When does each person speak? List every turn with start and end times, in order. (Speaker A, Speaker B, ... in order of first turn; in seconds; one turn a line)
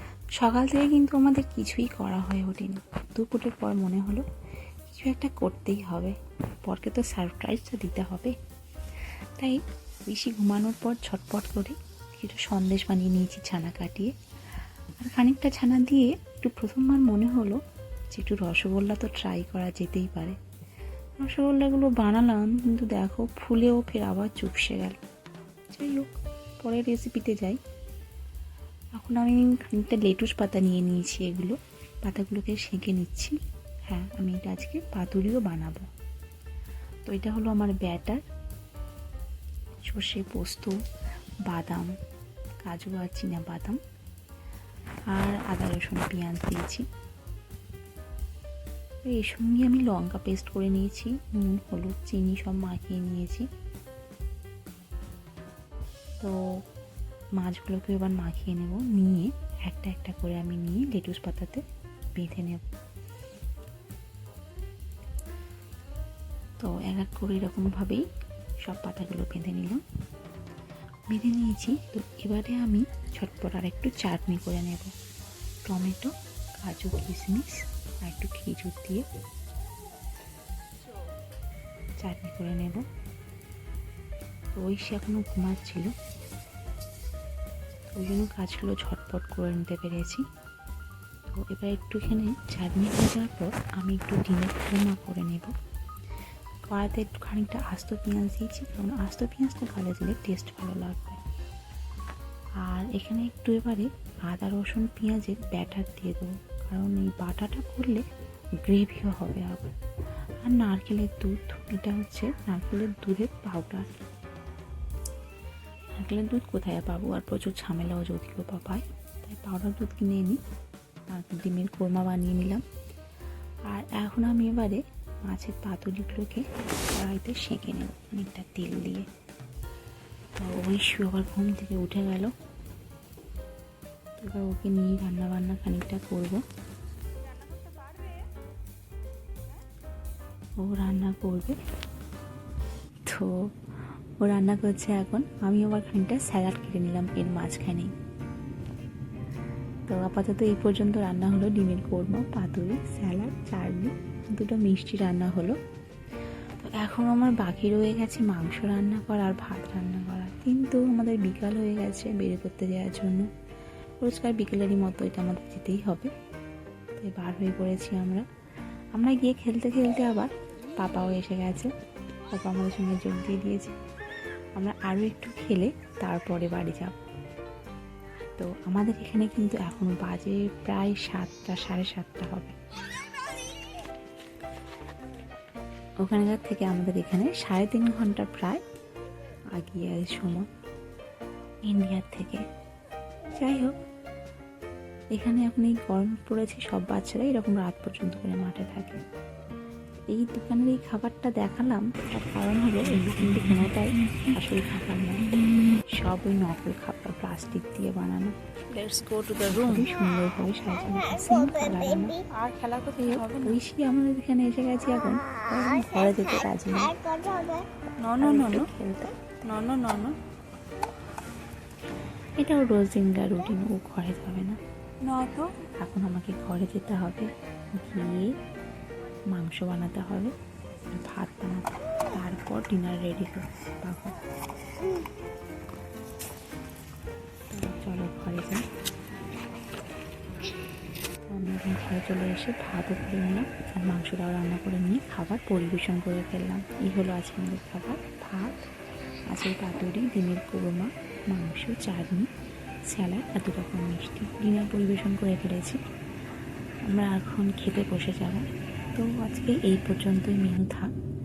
Speaker A: 0.4-4.2
Speaker A: 4.9-6.1
Speaker A: 6.7-8.3
Speaker A: 9.4-14.1
Speaker A: 15.0-17.6
Speaker A: 18.1-20.4
Speaker A: 21.2-25.0
Speaker A: 25.7-26.1
Speaker A: 26.6-27.6
Speaker A: 29.0-35.8
Speaker A: 37.1-38.2
Speaker A: 39.9-40.8
Speaker A: 41.5-41.9
Speaker A: 42.6-43.8
Speaker A: 45.1-46.9
Speaker A: 49.1-53.5
Speaker A: 57.4-61.6
Speaker A: 62.1-62.6
Speaker A: 66.6-68.0
Speaker A: 68.6-69.8
Speaker A: 71.1-74.9
Speaker A: 75.7-79.0
Speaker A: 82.0-82.8
Speaker A: 84.6-85.9
Speaker A: 87.9-90.2
Speaker A: 91.3-95.5
Speaker A: 96.7-101.2
Speaker A: 102.6-108.0
Speaker A: 108.6-109.7
Speaker A: 110.4-113.9
Speaker A: 116.0-120.4
Speaker A: 121.1-122.6
Speaker A: 123.7-129.1
Speaker A: 130.4-132.3
Speaker A: 134.2-136.4
Speaker B: 137.7-138.2
Speaker A: 140.6-141.6
Speaker A: 144.2-147.9
Speaker A: 149.9-155.6
Speaker A: 156.6-163.3
Speaker A: 164.0-166.1
Speaker A: 167.0-168.2
Speaker A: 168.9-171.7
Speaker A: 172.3-173.7
Speaker A: 174.6-176.9
Speaker A: 178.4-182.6
Speaker A: 186.0-188.6
Speaker A: 189.6-190.5
Speaker A: 191.7-192.4
Speaker A: 193.3-193.8
Speaker A: 195.1-199.0
Speaker A: 200.1-205.3
Speaker A: 205.9-208.3
Speaker B: 208.7-209.8
Speaker A: 209.5-212.3
Speaker B: 212.3-213.6
Speaker A: 213.0-217.3
Speaker B: 218.0-218.7
Speaker A: 218.2-219.4
Speaker B: 219.4-220.2
Speaker A: 222.4-224.6
Speaker B: 225.0-225.6
Speaker A: 225.8-228.3
Speaker A: 229.3-230.3
Speaker A: 230.9-234.2
Speaker A: 237.5-238.6
Speaker A: 241.3-248.6
Speaker A: 249.3-252.3
Speaker A: 252.9-255.8
Speaker A: 256.9-260.9